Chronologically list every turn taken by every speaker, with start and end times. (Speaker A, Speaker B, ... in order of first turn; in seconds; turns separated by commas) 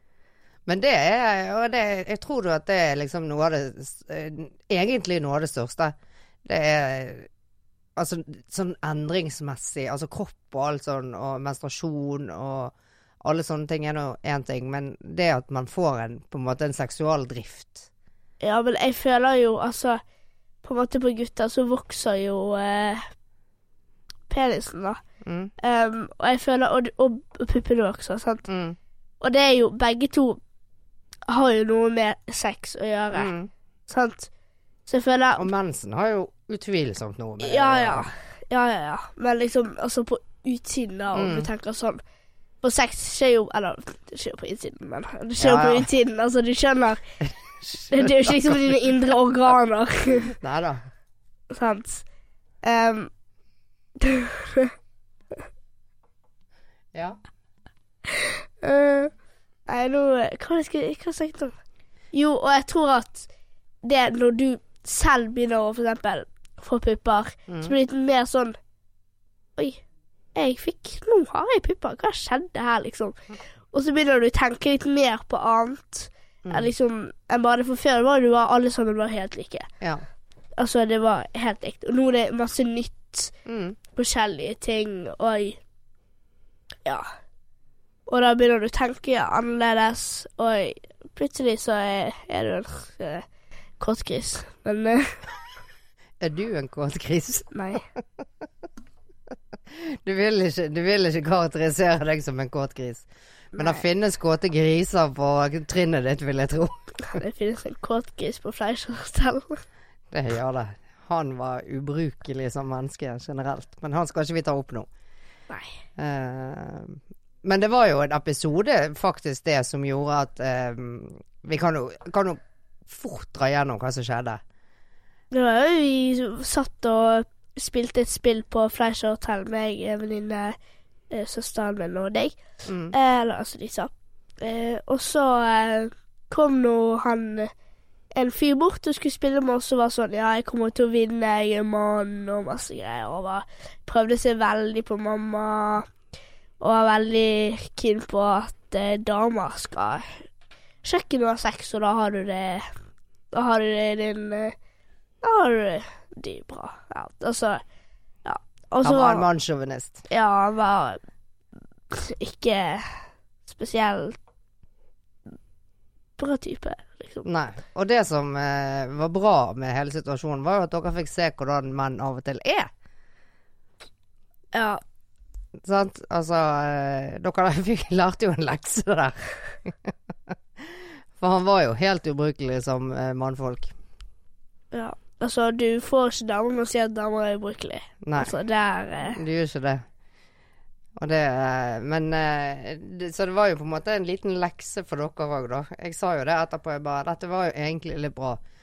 Speaker A: 0.7-7.3, Speaker A: 8.0-17.9, Speaker B: 18.4-20.0, Speaker B: 20.6-23.1, Speaker B: 24.3-25.0, Speaker A: 25.2-25.5, Speaker B: 25.6-28.4, Speaker A: 28.5-28.8, Speaker B: 29.2-30.4, Speaker B: 31.3-33.3, Speaker A: 33.1-33.5, Speaker B: 33.9-34.3, Speaker B: 34.9-35.5, Speaker A: 35.4-38.1, Speaker B: 37.4-42.0, Speaker A: 41.1-41.5, Speaker B: 42.6-47.0, Speaker A: 45.4-45.9, Speaker A: 47.2-48.8, Speaker B: 47.9-50.4, Speaker A: 50.3-50.8, Speaker B: 51.5-52.0, Speaker B: 52.6-53.1, Speaker B: 54.0-54.7, Speaker A: 56.9-57.2, Speaker B: 58.1-59.1, Speaker B: 59.7-61.6, Speaker B: 62.1-63.3, Speaker B: 63.8-68.6, Speaker A: 67.5-67.7, Speaker B: 69.6-69.8, Speaker B: 70.3-73.2, Speaker B: 73.7-79.7, Speaker B: 80.6-83.3, Speaker A: 83.5-83.8, Speaker B: 83.9-85.6, Speaker B: 88.1-93.2, Speaker B: 93.8-95.1, Speaker A: 96.2-97.5, Speaker B: 97.5-97.8, Speaker A: 99.7-107.2, Speaker B: 103.5-103.8, Speaker B: 107.0-109.6, Speaker A: 110.1-114.9, Speaker A: 116.0-124.4, Speaker B: 125.3-130.6, Speaker B: 131.1-132.4, Speaker A: 132.7-132.9, Speaker B: 132.9-137.5, Speaker B: 138.2-145.9, Speaker B: 146.6-150.2, Speaker B: 150.8-152.7, Speaker B: 153.3-154.6, Speaker B: 155.2-157.6, Speaker B: 158.2-159.3, Speaker A: 158.8-160.0, Speaker B: 160.1-161.0, Speaker B: 161.9-164.2, Speaker B: 166.2-167.3, Speaker A: 167.2-172.7, Speaker B: 174.5-174.8, Speaker A: 175.6-183.7, Speaker B: 184.7-189.2, Speaker A: 188.0-188.3, Speaker A: 189.1-189.8, Speaker A: 191.0-198.4